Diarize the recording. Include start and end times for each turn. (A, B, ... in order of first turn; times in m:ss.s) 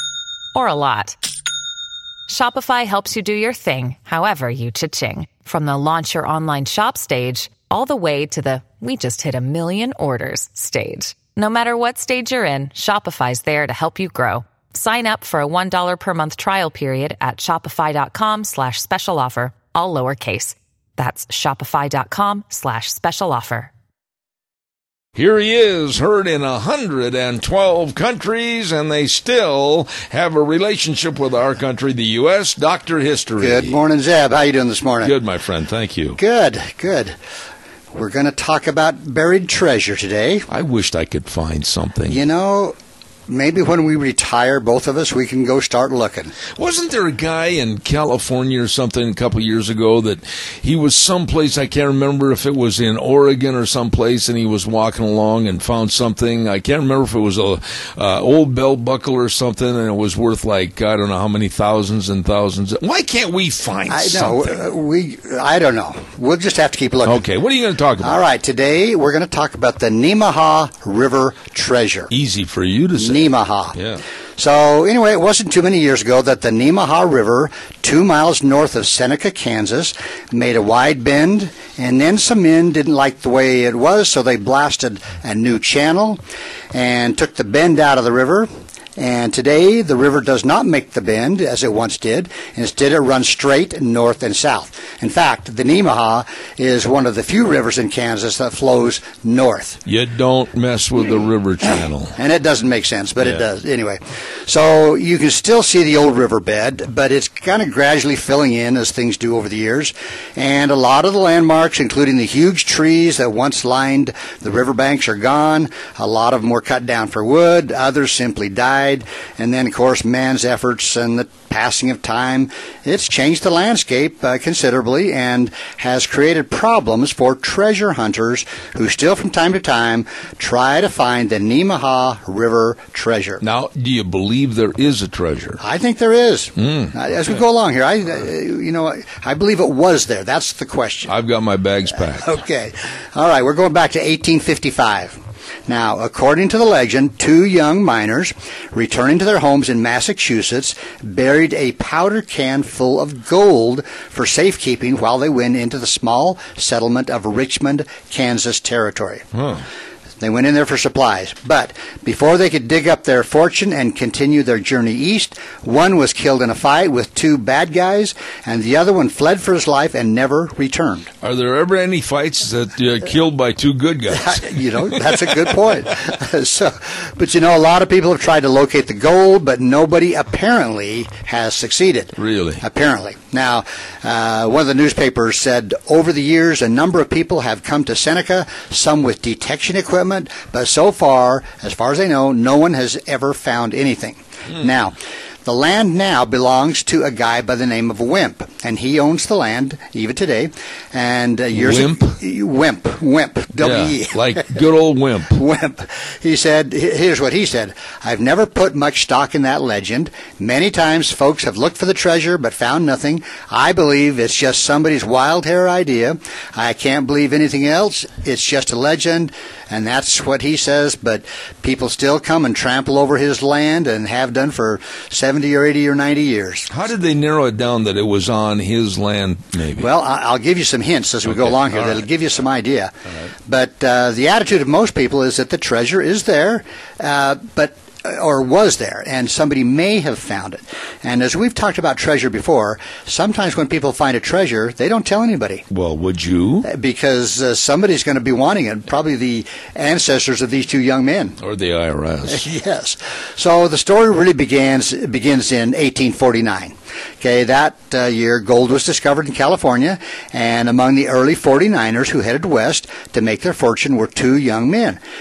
0:00.5-0:01.2 A
0:02.3-0:23.7 A
0:25.2-0:33.8 B
0:33.4-0:35.1 C
0:35.0-0:36.2 B
0:36.2-0:37.1 C
0:37.9-0:40.5 C
0:40.5-0:42.2 B
0:42.1-0:42.7 C
0:43.3-0:46.3 C
0:46.6-1:04.6 B
1:03.9-1:07.2 C
1:07.0-1:08.2 B
1:08.0-1:12.1 C
1:12.1-1:14.0 B
1:13.0-1:13.8 C
1:14.4-1:26.2 C
1:26.7-1:39.8 C
1:39.8-1:42.2 B
1:42.2-2:13.4 C
2:13.4-2:15.6 B
2:15.6-2:21.1 C
2:16.6-2:17.0 B
2:21.0-2:22.3 B
2:22.2-2:39.2 C
2:39.3-2:39.6 B
2:40.2-2:51.1 C
2:51.2-2:55.5 B
2:54.1-3:24.6 C
3:02.2-3:02.6 B
3:21.5-3:22.2 B
3:23.6-3:25.4 B
3:25.3-3:46.7 C
3:46.7-3:49.9 B
3:49.8-3:52.9 C
3:51.2-3:52.0 B
3:53.5-4:05.6 C
4:05.7-4:06.7 B
4:06.6-4:11.4 C
4:11.4-4:12.4 B
4:12.2-4:25.0 C